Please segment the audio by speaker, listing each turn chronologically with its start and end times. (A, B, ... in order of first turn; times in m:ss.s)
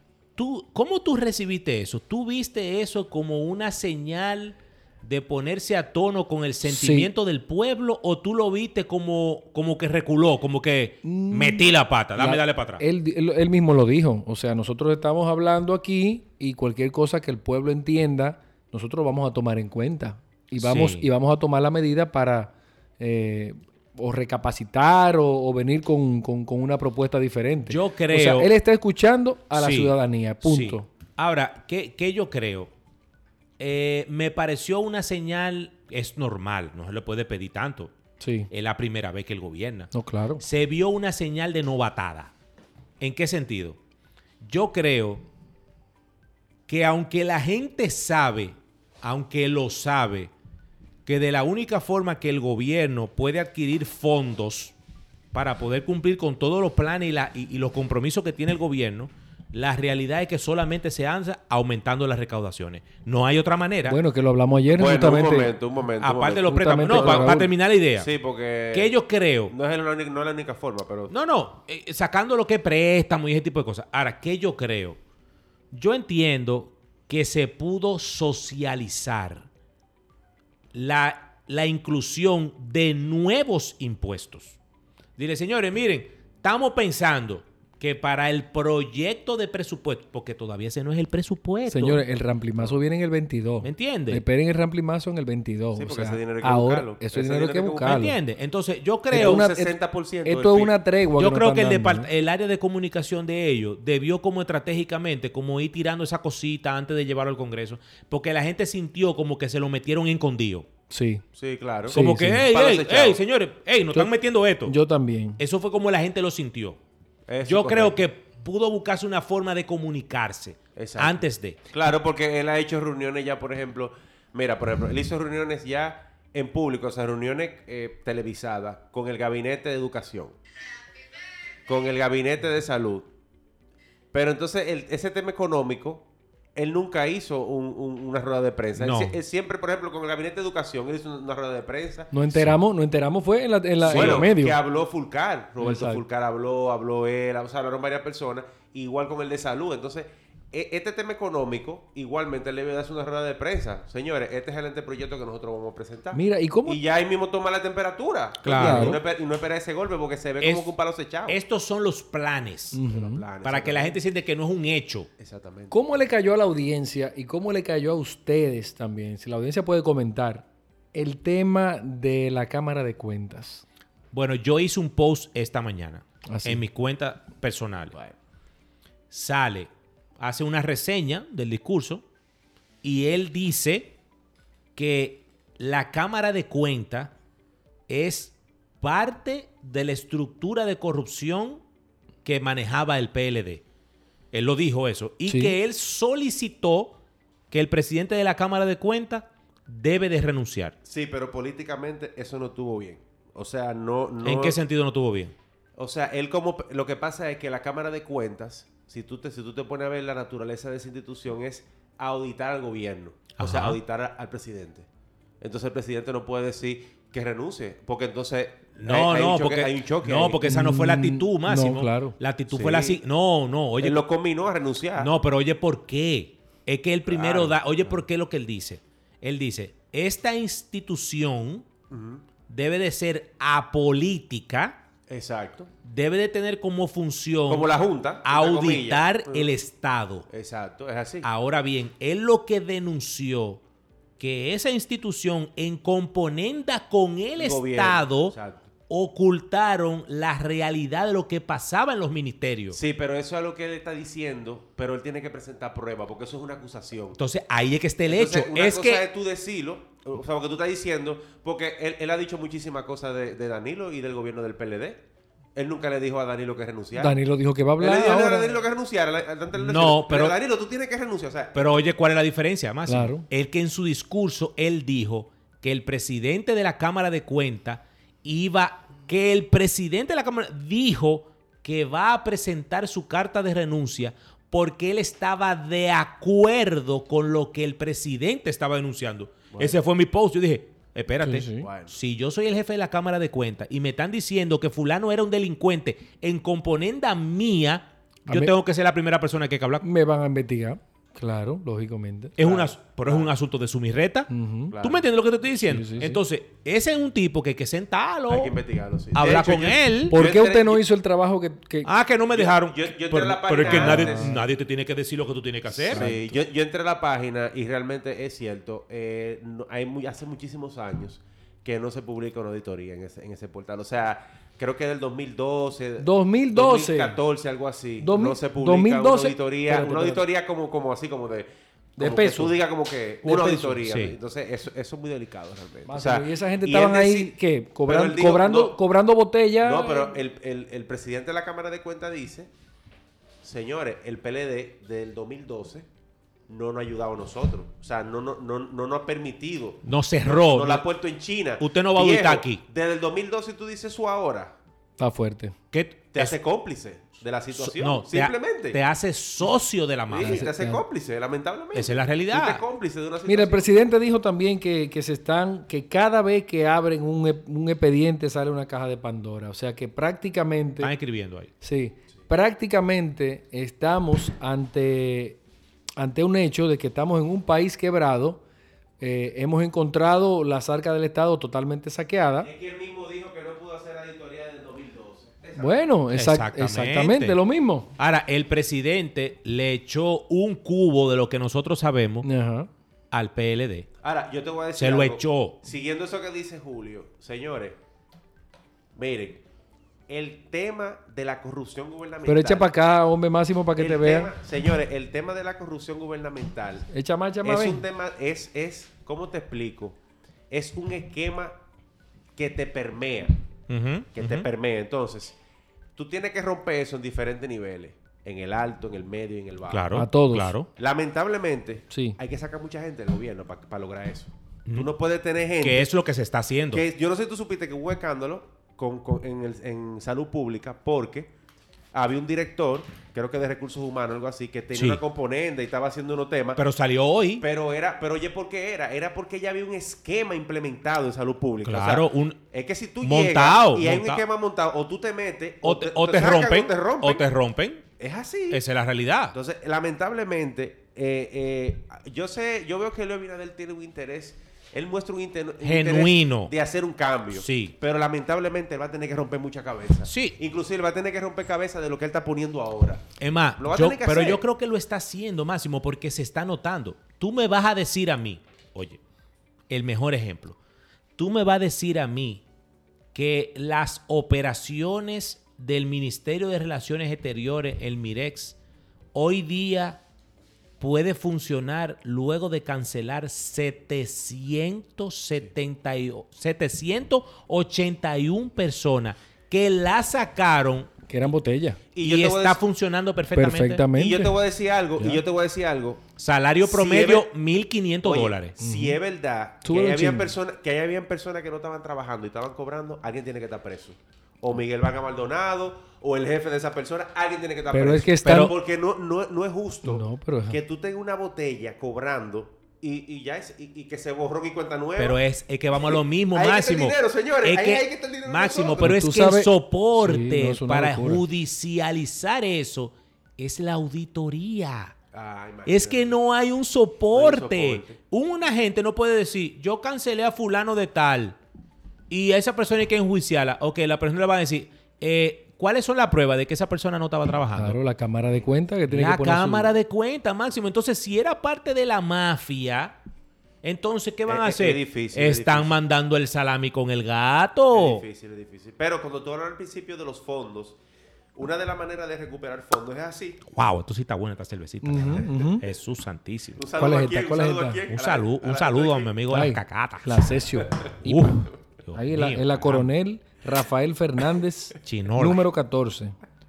0:00.4-0:12.8 A
0:06.6-0:07.1 B
0:11.0-0:30.9 B
0:20.6-0:21.0 A
0:27.7-0:28.5 A
0:29.5-0:32.7 A
0:33.6-0:37.9 A
0:38.2-0:38.5 B
0:38.5-0:42.3 A
0:39.9-0:40.4 B
0:43.0-0:43.8 A
0:44.4-0:45.2 A
0:46.7-0:50.3 A
0:51.0-0:54.7 A
0:55.3-1:04.0 A
1:03.9-1:05.5 B
1:04.7-1:08.9 C
1:06.0-1:08.1 A
1:06.4-1:07.5 B
1:08.7-1:09.5 A
1:09.5-1:11.1 C
1:11.1-1:15.0 A
1:15.7-1:19.5 A
1:20.7-1:24.6 A
1:25.2-1:32.0 A
1:31.7-1:38.2 B
1:33.6-1:34.2 A
1:35.7-1:38.1 C
1:37.8-1:39.4 A
1:39.1-1:40.7 C
1:39.1-1:42.1 B
1:41.2-1:50.7 A
1:50.9-1:51.2 B
1:51.4-1:53.2 C
1:51.9-1:52.5 B
1:51.9-1:54.8 A
1:54.6-1:55.4 B
1:55.4-1:56.8 A
1:57.3-1:58.0 C
1:57.4-2:01.6 A
2:00.8-2:10.3 C
2:11.7-2:13.1 C
2:14.1-2:22.1 C
2:18.8-2:19.2 A
2:22.1-2:24.6 B
2:23.8-2:41.4 C
2:23.8-2:24.2 A
2:25.6-2:26.0 B
2:36.1-2:36.8 B
2:38.4-2:39.0 A
2:38.5-2:39.0 B
2:40.4-2:40.7 A
2:41.3-2:42.8 A
2:42.7-2:43.2 B
2:42.9-2:44.0 C
2:43.4-2:45.1 A
2:45.2-2:45.8 C
2:45.7-2:53.6 B
2:54.1-2:58.0 A
2:56.3-2:56.6 B
2:59.1-3:02.0 A
3:02.8-3:04.0 A
3:04.8-3:07.1 A
3:07.9-3:11.6 A
3:12.2-3:13.6 A
3:14.3-3:17.0 A
3:15.3-3:15.5 B
3:17.5-3:20.8 A
3:20.8-3:24.6 C
3:24.2-3:25.3 A
3:25.8-3:34.9 C
3:33.4-3:33.8 A
3:35.4-3:40.4 C
3:38.8-3:44.0 A
3:40.4-3:42.2 B
3:42.5-3:43.0 C
3:43.8-3:45.1 C
3:45.0-3:51.6 A
3:47.1-3:48.0 C
3:51.9-3:52.2 C
3:52.5-3:54.8 A
3:55.1-3:55.7 C
3:55.8-3:57.7 A
3:57.5-3:59.5 C
3:58.2-4:00.3 A
4:00.3-4:01.3 C
4:01.2-4:03.6 A
4:04.2-4:08.3 A
4:07.4-4:08.7 C
4:08.9-4:12.8 A
4:12.7-4:17.2 C
4:17.2-4:19.0 A
4:18.1-4:25.0 C
4:25.5-4:27.1 C
4:27.0-4:28.6 B
4:27.8-4:31.8 C
4:29.6-4:30.3 A
4:31.5-4:59.8 A
4:32.8-4:33.2 B
4:49.5-4:49.8 C
4:51.2-4:51.7 B
4:51.6-4:51.9 C
4:59.8-5:02.3 B
5:02.4-5:08.6 A
5:02.4-5:03.3 C
5:04.3-5:04.7 B
5:04.7-5:05.0 C
5:05.6-5:06.2 B
5:08.3-5:10.8 C
5:09.1-5:10.2 A
5:10.1-5:11.9 B
5:11.8-5:16.0 A
5:12.3-5:14.4 C
5:13.6-5:14.4 B
5:15.8-5:37.3 C
5:15.8-5:16.3 B
5:26.0-5:27.2 B
5:28.0-5:30.2 B
5:32.0-5:32.6 B
5:33.2-5:33.8 B
5:33.8-5:34.1 A
5:35.9-5:40.1 B
5:37.8-5:38.8 C
5:39.6-5:42.5 C
5:43.4-5:45.9 C
5:46.5-5:54.5 C
5:49.8-5:50.8 A
5:51.6-5:52.6 A
5:55.0-5:55.5 B
5:55.7-5:56.4 A
5:56.1-5:58.8 C
5:57.5-6:00.5 A
6:00.1-6:03.7 C
6:00.2-6:00.8 B
6:01.7-6:02.6 A
6:03.2-6:10.9 B
6:10.8-6:11.5 A
6:11.6-6:15.4 B
6:16.0-6:18.4 B
6:19.0-6:22.5 B
6:22.4-6:25.8 C
6:25.6-6:27.9 B
6:26.1-6:27.4 A
6:28.0-6:32.3 A
6:32.2-6:32.7 B
6:33.1-6:33.9 A
6:34.0-6:37.8 C
6:34.8-6:35.6 A
6:38.9-6:39.4 C
6:40.1-6:42.7 C
6:42.2-6:44.3 B
6:43.8-6:46.9 C
6:46.9-6:47.8 B
6:47.4-6:50.0 C
6:50.5-6:51.6 C
6:52.4-6:53.4 C
6:53.7-6:54.4 A
6:54.1-6:55.4 C
6:56.0-6:59.9 C
6:59.7-7:00.7 A
6:59.9-7:00.5 B
7:00.8-7:05.9 C
7:01.9-7:02.2 B
7:05.6-7:06.8 A
7:06.7-7:11.3 C
7:11.9-7:16.6 C
7:14.7-7:15.0 A
7:16.6-7:17.4 A
7:17.4-7:27.2 C
7:21.6-7:22.4 A
7:23.0-7:24.2 A
7:25.6-7:27.8 A
7:28.0-7:28.6 C
7:28.5-7:29.3 A
7:29.3-7:43.0 C
7:35.6-7:36.5 A
7:37.3-7:37.7 A
7:40.1-7:40.4 A
7:43.2-7:49.0 A
7:43.6-7:44.4 C
7:49.7-7:50.6 A
7:51.2-7:52.4 A
7:53.1-7:58.6 A
7:59.1-8:00.0 A
8:00.8-8:10.9 A
8:11.1-8:11.8 B
8:11.9-8:12.6 C
8:12.0-8:13.9 A
8:13.3-8:14.3 B
8:13.9-8:16.0 C
8:16.2-8:18.5 A
8:16.6-8:17.3 C
8:18.0-8:35.2 C
8:18.6-8:19.0 B
8:19.6-8:20.3 B
8:27.7-8:28.5 B
8:28.2-8:28.5 A
8:29.8-8:30.6 B
8:35.0-8:44.9 A
8:35.8-8:39.0 C
8:38.8-8:41.2 B
8:45.1-8:46.2 C
8:45.7-8:51.4 A
8:47.1-8:48.0 C
8:52.1-8:57.8 A
8:57.6-8:59.7 B
8:58.9-9:03.0 A
9:03.6-9:08.0 A
9:04.3-9:05.7 C
9:07.7-9:10.8 C
9:11.3-9:13.4 C
9:13.5-9:16.6 A
9:14.8-9:15.6 B
9:16.6-9:19.1 C
9:16.7-9:17.8 B
9:17.9-9:20.4 A
9:19.3-9:26.2 B
9:21.0-9:22.9 A
9:24.8-9:25.4 A